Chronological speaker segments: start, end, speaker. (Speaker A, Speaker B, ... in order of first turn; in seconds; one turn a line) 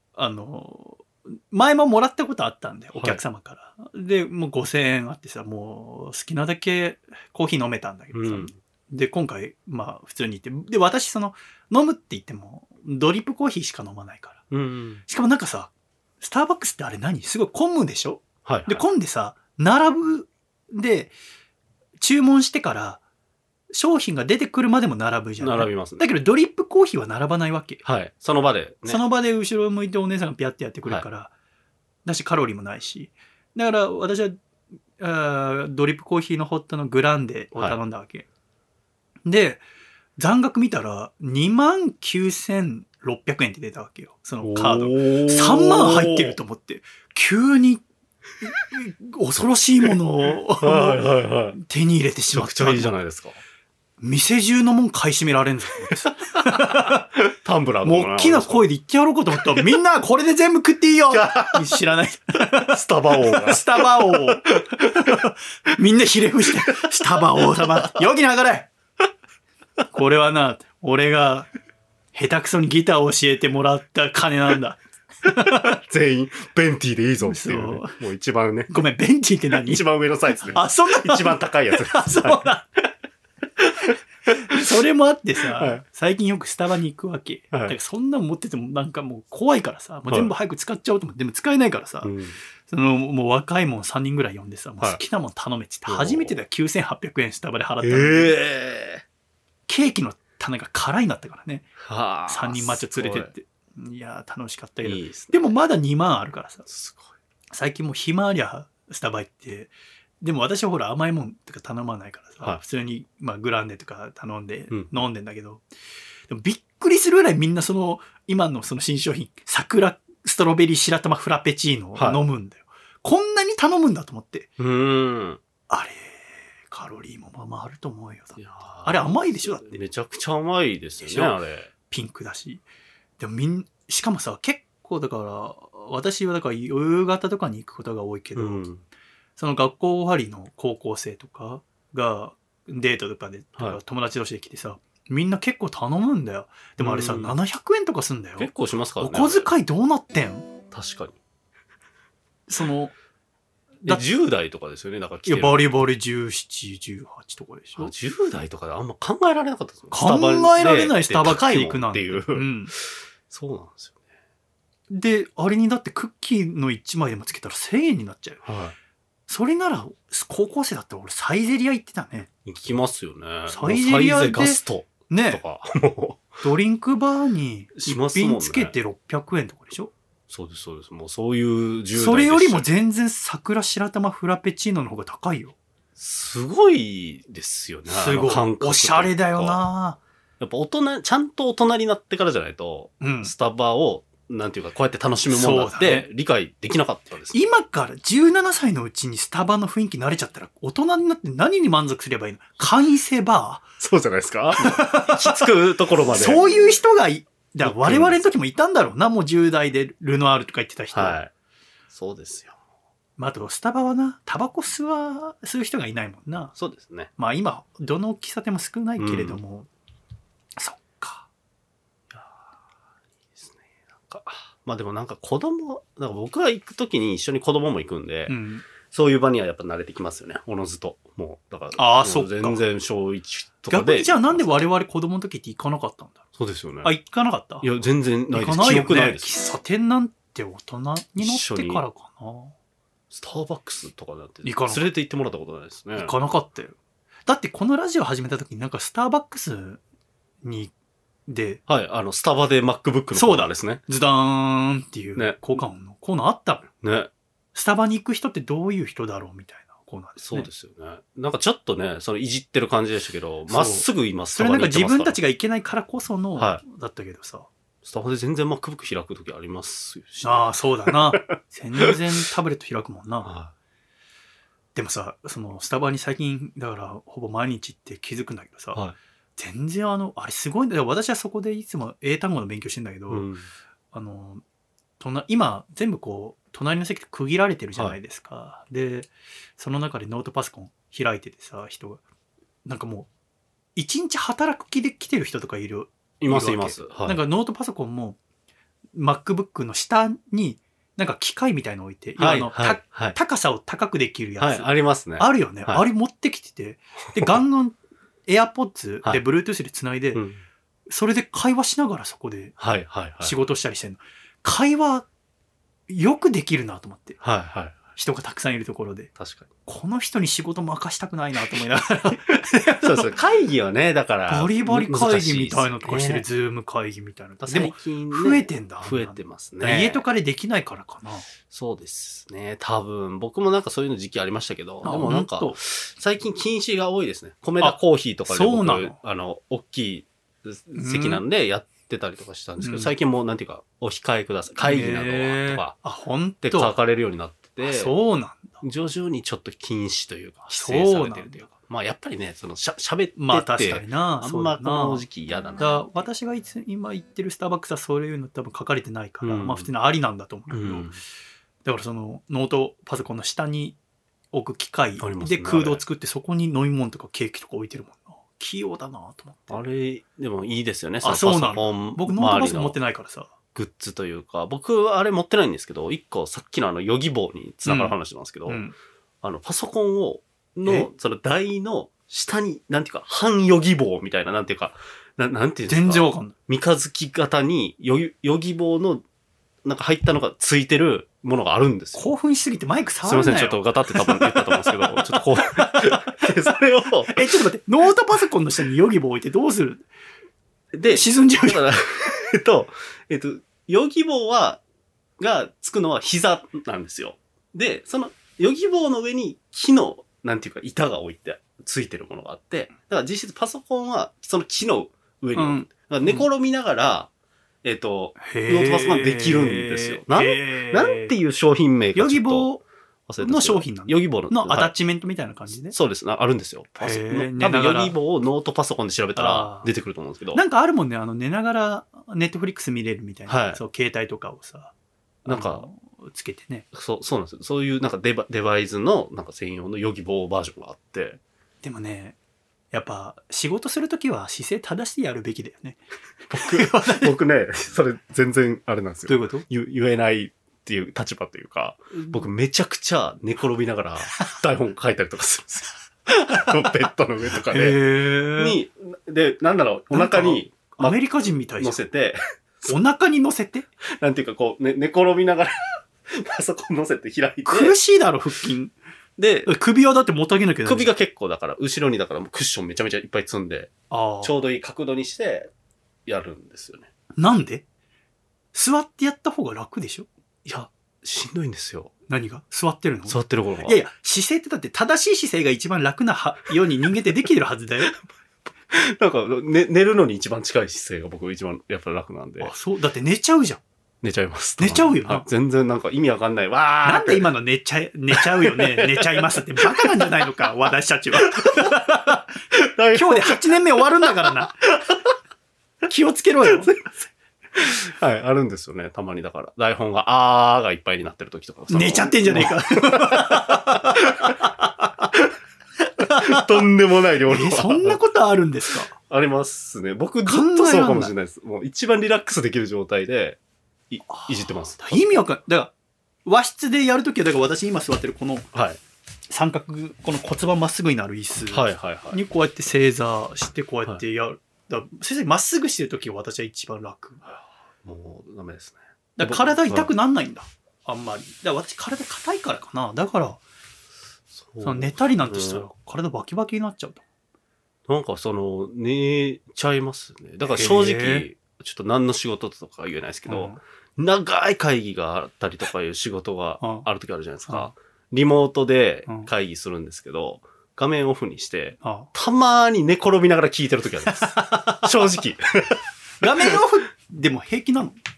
Speaker A: 0.1-14.4
Speaker B: 2.9-3.2
Speaker B: 8.1-8.5
Speaker B: 14.5-15.0
Speaker A: 15.1-21.1
Speaker B: 18.4-18.8
Speaker A: 22.0-23.0
Speaker A: 23.7-27.8
Speaker B: 25.4-26.0
Speaker B: 27.8-29.0
Speaker A: 28.9-31.3
Speaker A: 32.0-34.4
Speaker A: 35.0-38.2
Speaker A: 39.2-39.6
Speaker A: 40.2-47.8
Speaker B: 44.4-46.4
Speaker A: 48.4-52.9
Speaker B: 50.6-51.6
Speaker B: 52.3-53.4
Speaker A: 54.0-57.0
Speaker B: 57.3-58.6
Speaker A: 57.8-68.7
Speaker B: 61.1-61.7
Speaker B: 62.7-65.1
Speaker B: 67.1-67.7
Speaker A: 69.9-71.5
Speaker A: 72.1-75.8
Speaker B: 75.8-78.7
Speaker A: 77.2-78.0
Speaker A: 78.7-79.8
Speaker B: 79.5-82.5
Speaker A: 80.5-82.7
Speaker B: 83.6-83.9
Speaker A: 84.3-92.1
Speaker B: 85.6-85.8
Speaker B: 92.0-92.3
Speaker A: 92.7-98.3
Speaker B: 95.9-96.4
Speaker B: 97.8-99.0
Speaker A: 99.7-101.7
Speaker B: 101.8-103.3
Speaker A: 102.3-106.7
Speaker B: 104.8-105.5
Speaker B: 106.7-107.1
Speaker A: 107.5-115.6
Speaker A: 116.3-124.5
Speaker B: 122.0-122.2
Speaker B: 124.6-125.4
Speaker A: 125.7-129.8
Speaker B: 128.3-131.7
Speaker A: 131.0-131.3
Speaker A: 131.9-132.6
Speaker A: 133.2-138.6
Speaker B: 138.3-138.8
Speaker A: 139.4-148.5
Speaker B: 146.8-147.3
Speaker B: 148.4-149.5
Speaker A: 149.0-150.5
Speaker B: 150.7-151.2
Speaker A: 152.5-152.9
Speaker B: 153.8-155.6
Speaker A: 155.2-157.9
Speaker B: 157.8-163.9
Speaker A: 159.9-162.7
Speaker A: 164.9-168.4
Speaker B: 168.4-168.7
Speaker A: 169.3-172.3
Speaker B: 172.4-176.4
Speaker A: 173.5-175.4
Speaker A: 176.4-179.9
Speaker B: 177.8-178.7
Speaker B: 180.3-182.7
Speaker A: 181.9-185.5
Speaker B: 186.0-189.6
Speaker A: 187.9-190.0
Speaker B: 190.4-197.4
Speaker A: 193.0-193.3
Speaker A: 195.3-196.1
Speaker A: 197.3-203.7
Speaker B: 203.8-206.5
Speaker A: 204.5-205.5
Speaker A: 206.0-211.2
Speaker B: 207.6-208.2
Speaker B: 210.9-211.3
Speaker B: 211.9-212.6
Speaker A: 213.2-216.5
Speaker B: 216.6-217.1
Speaker A: 217.2-219.7
Speaker B: 219.0-219.4
Speaker A: 220.6-221.3
Speaker B: 222.1-222.4
Speaker B: 223.4-234.5
Speaker A: 228.3-228.7
Speaker A: 231.8-232.6
Speaker A: 233.7-236.2
Speaker B: 236.4-236.9
Speaker A: 236.8-237.7
Speaker B: 237.6-239.3
Speaker A: 238.3-242.5
Speaker B: 241.2-241.8
Speaker B: 243.1-246.1
Speaker A: 244.4-244.8
Speaker A: 246.0-249.8
Speaker A: 250.4-250.7
Speaker A: 251.3-251.6
Speaker B: 251.7-253.8
Speaker A: 253.1-256.7
Speaker B: 255.2-255.6
Speaker B: 256.8-257.1
Speaker A: 257.5-260.5
Speaker B: 260.2-265.1
Speaker A: 263.5-267.5
Speaker B: 267.8-271.3
Speaker A: 270.2-273.3
Speaker B: 273.2-273.5
Speaker A: 274.7-278.8
Speaker A: 279.4-283.3
Speaker B: 283.1-283.5
Speaker A: 283.9-284.4
Speaker A: 285.0-292.0
Speaker A: 292.6-293.1
Speaker A: 293.8-298.2
Speaker B: 296.2-297.2
Speaker A: 298.9-310.2
Speaker B: 302.2-303.1
Speaker B: 304.4-305.8
Speaker B: 310.1-310.4
Speaker A: 310.9-312.6
Speaker B: 312.6-313.3
Speaker A: 313.2-315.1
Speaker A: 315.9-317.2
Speaker B: 317.2-317.8
Speaker A: 317.9-319.1
Speaker B: 319.2-319.5
Speaker A: 319.6-323.1
Speaker B: 322.8-326.2
Speaker A: 324.3-331.3
Speaker B: 327.4-330.0
Speaker B: 331.5-345.8
Speaker A: 334.8-335.6
Speaker A: 337.6-339.0
Speaker A: 340.7-341.2
Speaker A: 342.6-342.9
Speaker A: 344.6-346.7
Speaker B: 346.4-347.9
Speaker A: 347.6-348.6
Speaker B: 348.6-355.6
Speaker A: 350.5-351.5
Speaker A: 353.1-355.1
Speaker A: 355.6-360.9
Speaker B: 359.2-359.7
Speaker B: 360.5-361.0
Speaker A: 361.6-363.8
Speaker A: 364.3-369.6
Speaker B: 365.0-365.8
Speaker B: 369.5-372.8
Speaker A: 371.0-373.3
Speaker B: 373.5-378.6
Speaker A: 377.6-378.7
Speaker B: 379.2-389.0
Speaker A: 385.7-386.3
Speaker B: 389.6-392.1
Speaker A: 391.9-396.4
Speaker B: 393.0-397.2
Speaker A: 397.0-399.8
Speaker B: 400.7-404.6
Speaker A: 400.8-401.6
Speaker B: 405.2-417.1
Speaker A: 415.4-416.3
Speaker B: 417.6-422.5
Speaker A: 418.2-421.1
Speaker A: 421.9-422.6
Speaker B: 423.1-424.7
Speaker A: 423.2-425.7
Speaker B: 425.7-430.4
Speaker A: 426.8-427.9
Speaker A: 429.1-429.7
Speaker A: 430.3-434.7
Speaker B: 433.3-433.6
Speaker A: 435.2-436.7
Speaker B: 435.2-435.6
Speaker B: 436.7-441.2
Speaker A: 441.6-442.2
Speaker A: 442.7-447.2
Speaker B: 446.3-457.8
Speaker A: 449.1-449.4
Speaker A: 457.5-458.6
Speaker B: 458.4-462.7
Speaker A: 459.9-461.8
Speaker A: 462.6-463.7
Speaker B: 463.8-467.7
Speaker A: 467.4-468.7
Speaker B: 469.2-469.5
Speaker A: 469.4-470.9
Speaker B: 470.6-475.5
Speaker A: 473.9-474.3
Speaker B: 476.1-476.9
Speaker A: 477.2-477.6
Speaker A: 478.5-480.1
Speaker B: 480.4-481.9
Speaker A: 482.1-487.9
Speaker B: 483.1-483.8
Speaker B: 488.7-492.5
Speaker A: 492.4-493.6
Speaker B: 494.0-497.3
Speaker A: 494.6-495.2
Speaker A: 496.8-502.3
Speaker B: 498.1-500.1
Speaker B: 501.2-501.7
Speaker B: 502.5-504.5
Speaker A: 502.9-504.6
Speaker A: 505.9-506.7
Speaker B: 506.5-506.9
Speaker B: 507.5-514.4
Speaker A: 511.7-515.1
Speaker B: 515.0-515.3
Speaker A: 516.0-516.6
Speaker B: 516.1-518.0
Speaker A: 517.3-518.9
Speaker B: 518.9-523.4
Speaker A: 520.2-521.1
Speaker B: 523.9-525.0
Speaker A: 524.1-525.7
Speaker A: 526.2-528.5
Speaker B: 528.5-528.8
Speaker A: 529.3-537.2
Speaker B: 531.5-532.2
Speaker B: 537.3-539.9
Speaker A: 539.2-543.4
Speaker B: 544.3-545.7
Speaker A: 544.6-547.0
Speaker B: 547.9-565.8
Speaker A: 550.5-551.2
Speaker A: 553.3-553.5
Speaker A: 556.6-556.9
Speaker A: 561.8-562.1
Speaker A: 564.2-564.9
Speaker A: 566.2-568.0